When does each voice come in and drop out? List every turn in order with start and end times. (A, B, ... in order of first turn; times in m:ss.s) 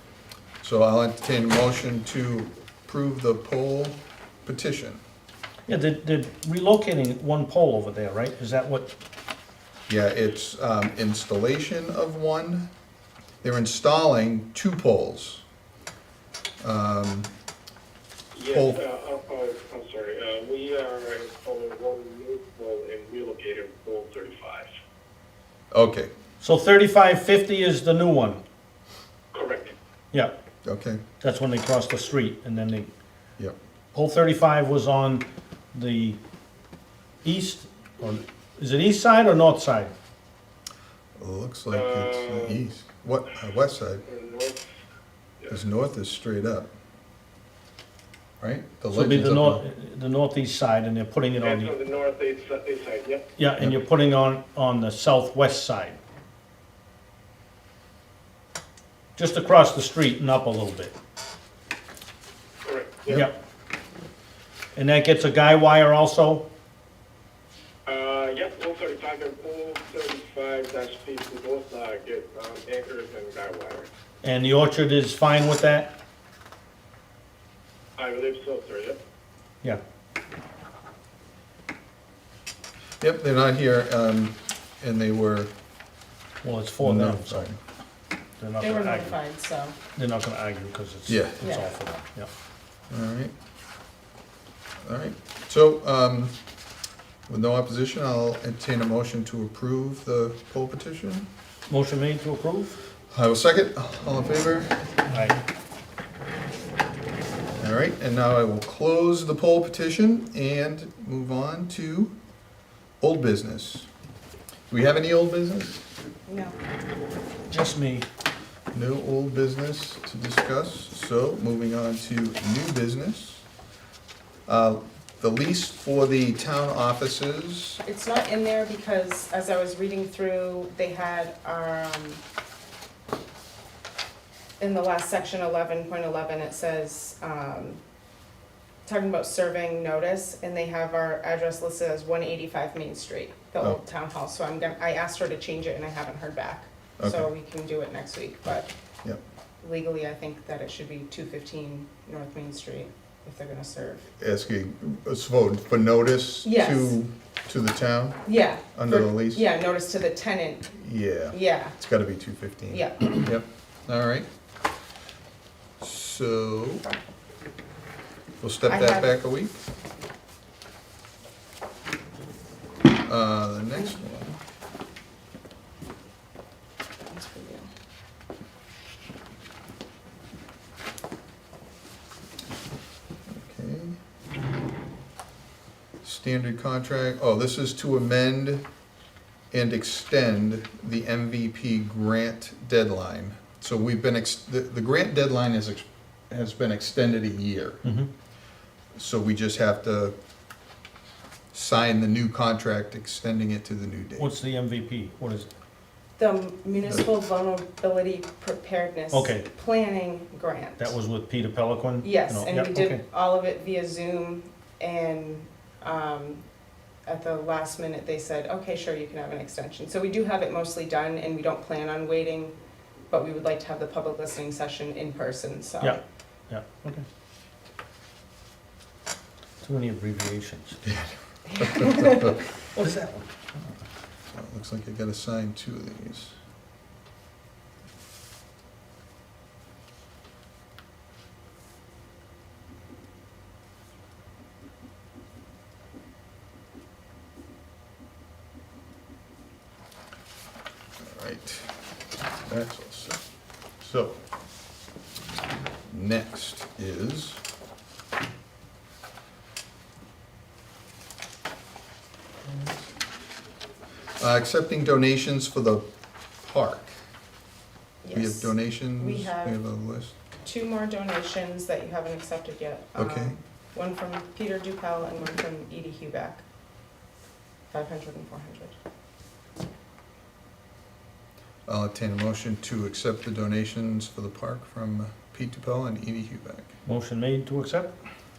0:00.6-0:05.0 A
0:05.7-0:08.9 B
0:09.9-0:12.7 A
0:13.4-0:15.4 A
0:16.6-0:17.3 A
0:18.3-0:24.7 C
0:18.5-0:18.8 A
0:25.7-0:26.1 A
0:26.4-0:28.4 B
0:29.3-0:29.7 C
0:30.6-0:31.0 A
0:31.2-0:32.9 B
0:33.9-0:36.2 B
0:37.2-0:39.9 B
0:41.2-0:44.0 A
0:41.7-0:42.6 C
0:44.1-0:44.6 C
0:45.5-0:46.7 A
0:48.4-0:49.6 A
0:48.9-0:51.8 B
0:51.4-0:53.3 C
0:53.4-0:56.0 B
0:59.2-1:00.9 B
1:02.6-1:03.3 C
1:03.1-1:03.3 B
1:04.8-1:06.5 B
1:07.9-1:13.9 C
1:14.2-1:15.9 B
1:18.0-1:19.0 C
1:23.0-1:25.5 A
1:26.4-1:27.5 B
1:26.8-1:27.6 A
1:28.4-1:29.2 B
1:28.6-1:29.8 D
1:30.0-1:32.3 B
1:31.1-1:31.4 A
1:31.4-1:31.8 D
1:32.9-1:33.3 A
1:34.8-1:36.4 A
1:37.3-1:41.3 A
1:41.7-1:42.8 B
1:43.1-1:44.7 A
1:45.1-1:45.4 B
1:47.6-1:52.2 A
1:53.0-1:53.9 A
1:54.7-1:55.9 A
1:56.3-1:56.6 D
1:57.5-1:58.1 B
1:58.7-2:03.4 A
2:04.5-2:07.8 A
2:07.8-2:12.2 D
2:14.6-2:17.8 D
2:18.8-2:28.7 D
2:27.0-2:27.3 A
2:29.6-2:34.1 D
2:34.2-2:39.4 A
2:36.4-2:37.0 D
2:38.2-2:40.7 D
2:40.7-2:44.3 A
2:41.3-2:41.8 D
2:42.7-2:43.3 D
2:45.8-2:46.9 A
2:48.4-2:49.5 A
2:48.7-2:49.1 D
2:53.0-2:54.4 A
2:57.1-2:57.7 D
3:03.3-3:04.0 A
3:06.0-3:08.6 A
3:09.5-3:17.8 A
3:19.0-3:20.2 A
3:21.5-3:24.3 A
3:24.2-3:25.5 B
3:26.2-3:31.0 D
3:29.1-3:29.5 B
3:30.8-3:33.0 B
3:32.0-3:36.4 D
3:37.1-3:42.6 D
3:43.1-3:46.0 D
3:45.8-3:47.0 B
3:49.6-3:50.8 B
3:50.8-3:52.4 A
3:51.5-3:52.4 D
3:52.7-3:53.3 B
3:54.3-3:56.4 A
4:11.0-4:11.8 A
4:12.4-4:13.2 A
4:13.8-4:14.2 A
4:15.9-4:17.4 A
4:24.2-4:25.8 A
4:26.4-4:26.9 A
4:28.0-4:29.6 D
4:28.1-4:30.2 A
4:30.4-4:36.4 D
4:33.0-4:33.4 A
4:37.7-4:38.8 D
4:41.7-4:46.7 A
4:46.9-4:47.9 B